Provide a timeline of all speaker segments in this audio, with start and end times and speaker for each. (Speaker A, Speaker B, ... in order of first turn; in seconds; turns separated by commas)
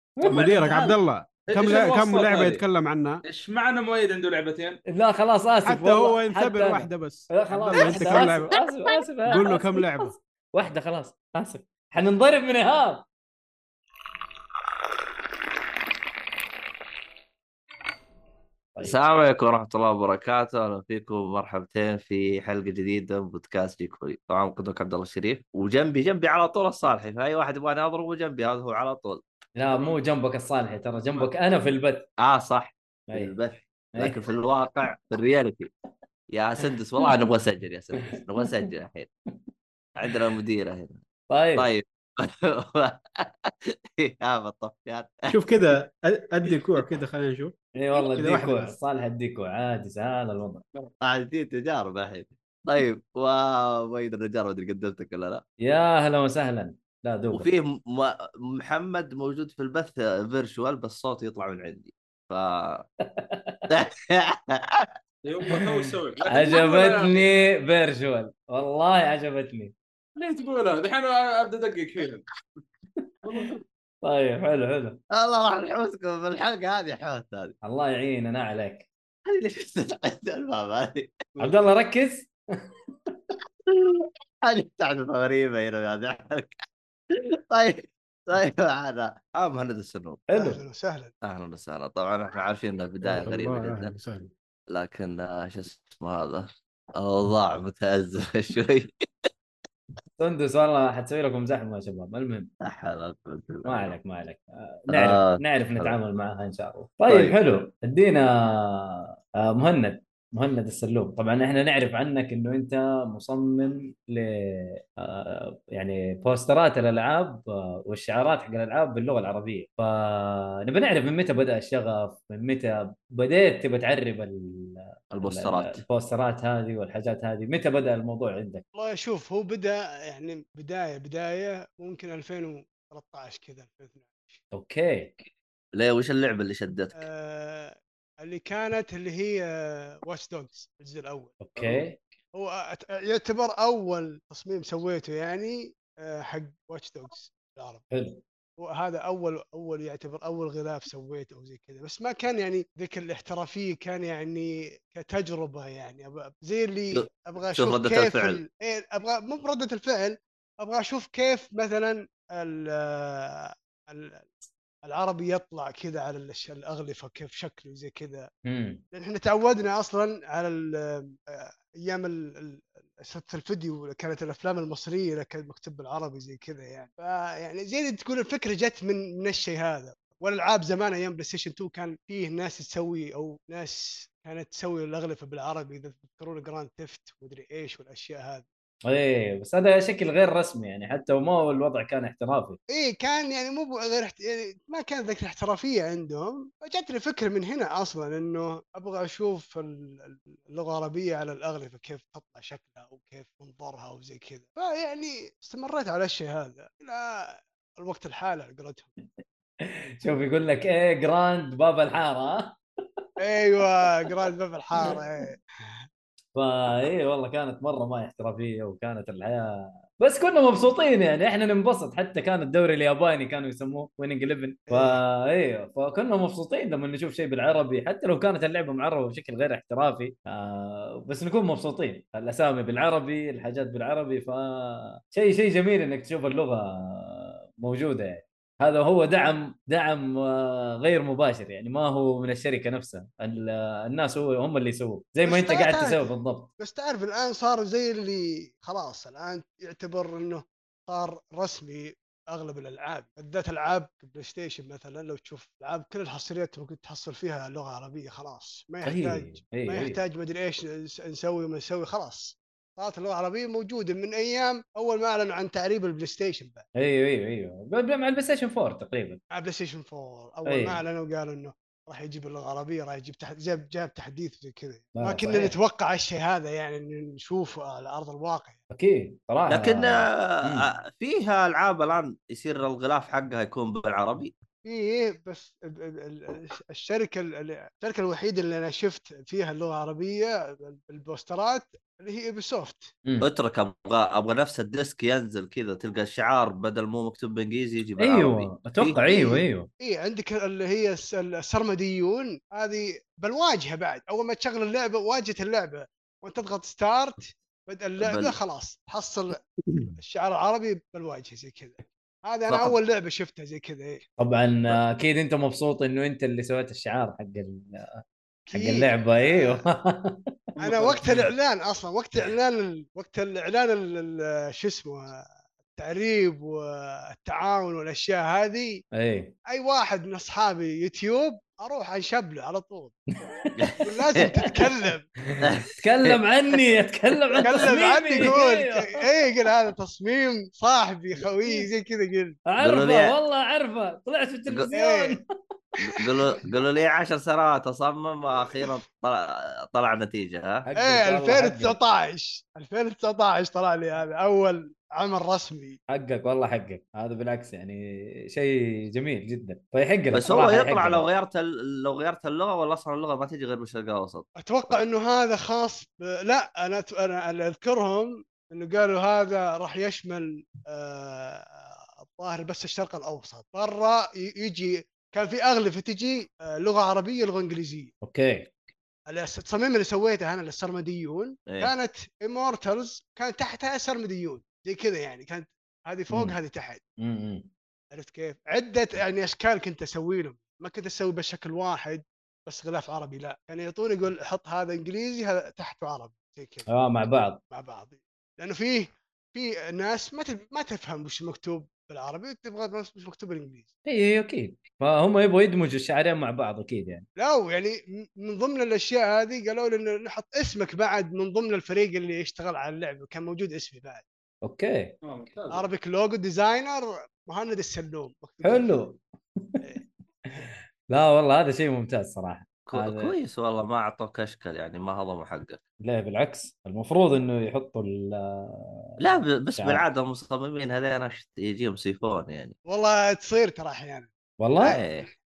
Speaker A: 0.2-1.0, Speaker B: 0.2-3.2, Speaker C: 1.4-2.6, Speaker C: 3.2-4.8, Speaker A: 4.9-13.1, Speaker B: 5.7-8.6, Speaker C: 7.7-8.2, Speaker B: 9.3-10.1, Speaker A: 18.8-19.0, Speaker D: 18.8-29.2, Speaker A: 29.6-32.1, Speaker D: 32.2-35.7, Speaker D: 36.3-39.1, Speaker D: 40.0-41.0, Speaker A: 41.3-41.7, Speaker D: 41.6-45.1, Speaker B: 45.3-48.8, Speaker A: 47.8-50.6, Speaker D: 51.0-55.4, Speaker A: 55.6-57.5, Speaker D: 57.3-62.9, Speaker A: 63.2-63.7, Speaker D: 63.7-64.9, Speaker C: 65.2-67.5, Speaker A: 65.5-69.7, Speaker C: 70.2-72.2, Speaker C: 73.3-73.6, Speaker A: 73.3-75.0, Speaker D: 75.1-77.5, Speaker A: 77.6-78.9, Speaker D: 79.3-81.2, Speaker A: 81.4-82.3, Speaker D: 83.7-86.6, Speaker D: 87.1-90.2, Speaker A: 90.3-90.6, Speaker E: 90.3-91.1, Speaker D: 91.2-93.9, Speaker B: 93.0-94.3, Speaker D: 94.7-99.1, Speaker A: 100.2-102.5, Speaker D: 102.7-103.9, Speaker A: 103.7-128.6, Speaker D: 104.9-105.9, Speaker D: 107.1-107.4, Speaker D: 125.1-125.8, Speaker E: 128.8-134.4, Speaker A: 134.5-135.2, Speaker D: 135.7-137.1, Speaker E: 136.9-141.8, Speaker A: 141.4-142.0, Speaker E: 142.3-147.8, Speaker A: 147.9-148.2, Speaker E: 148.6-164.3, Speaker D: 156.9-158.4, Speaker E: 164.8-168.3, Speaker A: 168.5-168.8, Speaker E: 168.9-188.4, Speaker A: 188.9-192.6, Speaker E: 192.7-208.9, Speaker A: 209.6-212.6, Speaker E: 213.2-215.8, Speaker A: 216.3-246.5, Speaker E: 224.7-225.0, Speaker E: 245.3-266.6, Speaker A: 258.8-260.0, Speaker A: 266.8-269.2, Speaker E: 269.3-278.6, Speaker A: 270.5-270.8, Speaker A: 275.0-275.5, Speaker A: 278.7-280.7, Speaker D: 279.5-284.3, Speaker E: 284.6-292.9, Speaker D: 293.2-299.0, Speaker A: 298.0-299.7, Speaker E: 299.0-309.4, Speaker D: 308.0-308.4, Speaker E: 310.0-314.1, Speaker D: 312.5-312.8, Speaker A: 314.2-320.3, Speaker E: 318.5-319.7, Speaker C: 320.6-321.3, Speaker E: 320.6-328.8, Speaker A: 328.9-329.3, Speaker E: 329.5-333.0, Speaker D: 333.6-334.3, Speaker E: 333.8-335.1, Speaker A: 335.3-338.9, Speaker D: 335.4-336.2, Speaker E: 337.4-342.4, Speaker A: 342.5-345.3, Speaker D: 342.6-343.2, Speaker E: 344.7-345.2, Speaker D: 345.8-350.6, Speaker A: 350.7-351.8, Speaker E: 350.8-355.8, Speaker A: 355.9-361.1, Speaker D: 360.1-364.3, Speaker E: 364.4-377.9, Speaker A: 378.0-378.5, Speaker E: 379.1-386.8, Speaker D: 381.5-381.7, Speaker A: 386.1-386.4, Speaker A: 387.0-387.5, Speaker E: 387.9-396.7, Speaker A: 396.7-397.4, Speaker E: 397.5-403.7, Speaker A: 403.9-407.1, Speaker E: 407.2-414.0, Speaker A: 414.4-414.9, Speaker C: 415.0-415.6, Speaker E: 415.5-418.8, Speaker A: 418.4-419.7, Speaker A: 420.4-423.1, Speaker D: 422.7-425.6, Speaker A: 425.8-428.8, Speaker D: 429.0-432.6, Speaker A: 429.6-429.8, Speaker E: 432.7-434.1, Speaker A: 434.4-434.8, Speaker D: 434.6-435.1